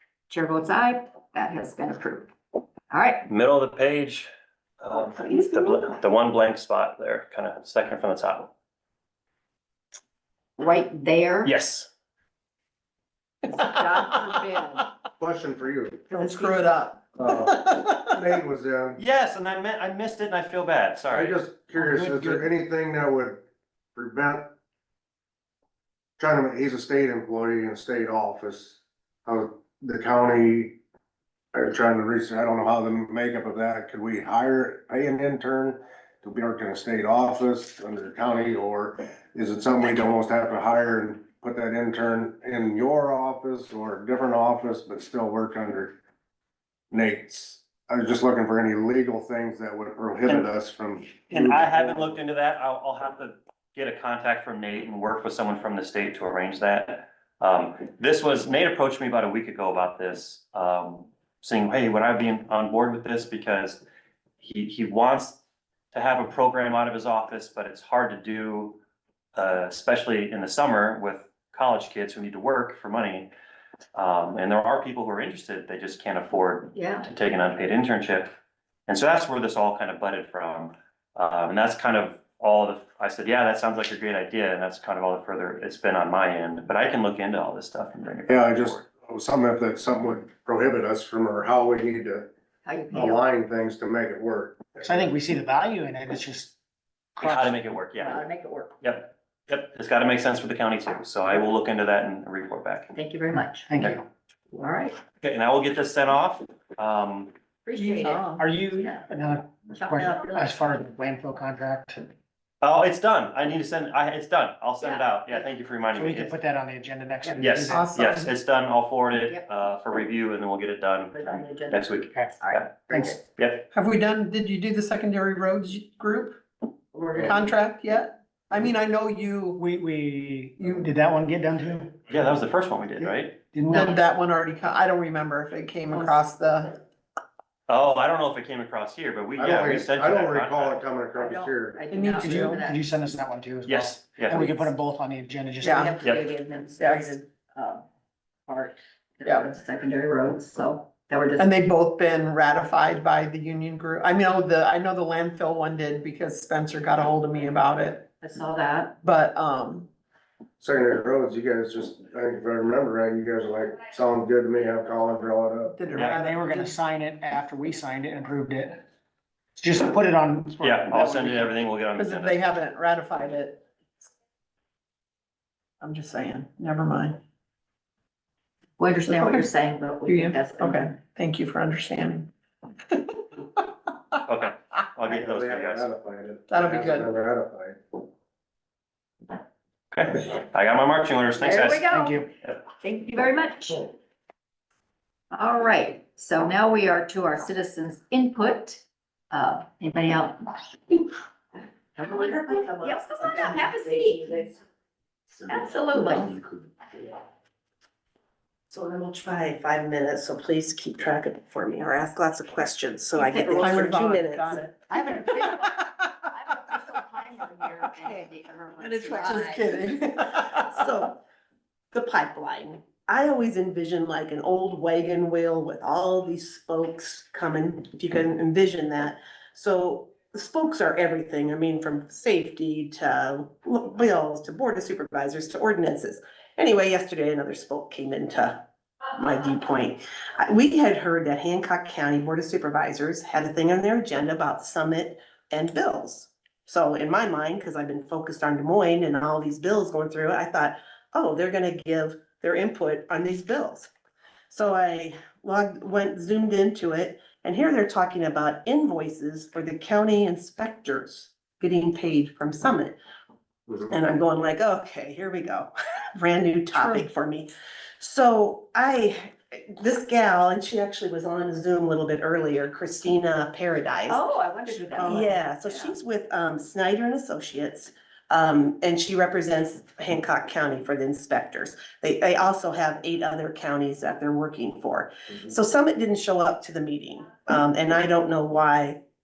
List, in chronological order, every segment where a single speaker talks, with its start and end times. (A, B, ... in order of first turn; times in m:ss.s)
0:00.3-0:02.3 A
0:02.9-0:03.3 A
0:03.3-0:04.3 B
0:04.8-0:08.5 B
0:10.6-0:11.5 A
0:11.4-0:11.9 B
0:13.4-0:14.9 A
0:15.2-0:16.0 C
0:16.1-0:16.8 A
0:16.1-0:18.2 D
0:17.2-0:19.0 C
0:19.0-0:21.4 B
0:21.1-0:23.4 C
0:21.8-0:22.4 E
0:24.0-0:24.6 C
0:26.2-0:30.8 C
0:31.5-0:46.0 C
0:46.9-0:52.2 C
0:51.3-1:03.8 B
1:04.4-1:05.4 B
1:05.9-1:08.8 B
1:09.4-1:13.3 B
1:13.9-1:18.3 B
1:16.7-1:17.1 A
1:18.9-1:28.8 B
1:28.3-1:32.3 C
1:32.6-1:33.2 A
1:32.9-1:35.1 C
1:34.8-1:36.6 E
1:37.2-1:37.6 E
1:37.2-1:38.2 B
1:38.0-1:38.8 A
1:38.8-1:43.0 B
1:42.9-1:43.7 A
1:43.6-1:44.0 E
1:44.5-1:45.0 A
1:45.2-1:47.3 B
1:47.6-1:49.1 A
1:47.8-1:48.4 D
1:48.4-1:52.1 E
1:49.7-1:50.6 A
1:52.6-1:56.3 B
1:54.8-1:55.5 A
1:55.9-1:57.9 E
1:57.3-1:58.3 D
1:57.4-2:03.7 B
2:01.1-2:03.2 A
2:02.9-2:03.2 E
2:03.7-2:06.4 D
2:06.9-2:07.5 A
2:07.2-2:09.6 D
2:09.6-2:12.0 E
2:12.1-2:13.4 B
2:13.5-2:14.0 E
2:13.7-2:16.8 D
2:15.9-2:16.2 A
2:17.7-2:20.8 B
2:19.4-2:21.8 C
2:21.2-2:23.0 A
2:21.9-2:22.7 D
2:22.1-2:25.9 E
2:23.7-2:24.6 B
2:24.3-2:24.6 A
2:25.6-2:26.0 D
2:25.7-2:27.8 A
2:26.8-2:27.2 D
2:28.5-2:31.5 A
2:29.2-2:29.5 D
2:31.4-2:38.1 D
2:38.2-2:39.0 A
2:39.0-2:39.9 D
2:40.6-2:45.8 C
2:45.7-2:46.8 D
2:46.0-2:46.2 B
2:46.0-2:48.8 E
2:49.6-2:51.5 E
2:50.6-2:52.4 B
2:52.0-2:53.6 D
2:55.8-2:57.2 D
2:58.8-3:00.9 A
2:59.1-2:59.5 D
3:00.1-3:02.3 D
3:04.3-3:05.9 B
3:05.1-3:07.8 C
3:06.5-3:07.1 D
3:09.9-3:11.8 B
3:11.4-3:12.3 A
3:11.9-3:12.3 E
3:12.8-3:13.9 A
3:15.3-3:20.6 A
3:22.0-3:24.2 F
3:22.8-3:24.6 A
3:25.5-3:26.4 A
3:28.7-3:34.7 F
3:33.2-3:33.9 A
3:33.4-3:35.9 D
3:34.9-3:39.8 A
3:38.8-3:41.2 F
3:38.9-3:40.7 D
3:41.9-3:58.6 F
3:59.2-4:13.9 F
4:14.5-4:23.0 F
4:23.9-4:34.2 F
4:26.7-4:27.1 D
4:34.1-4:35.9 A
4:35.0-4:49.0 F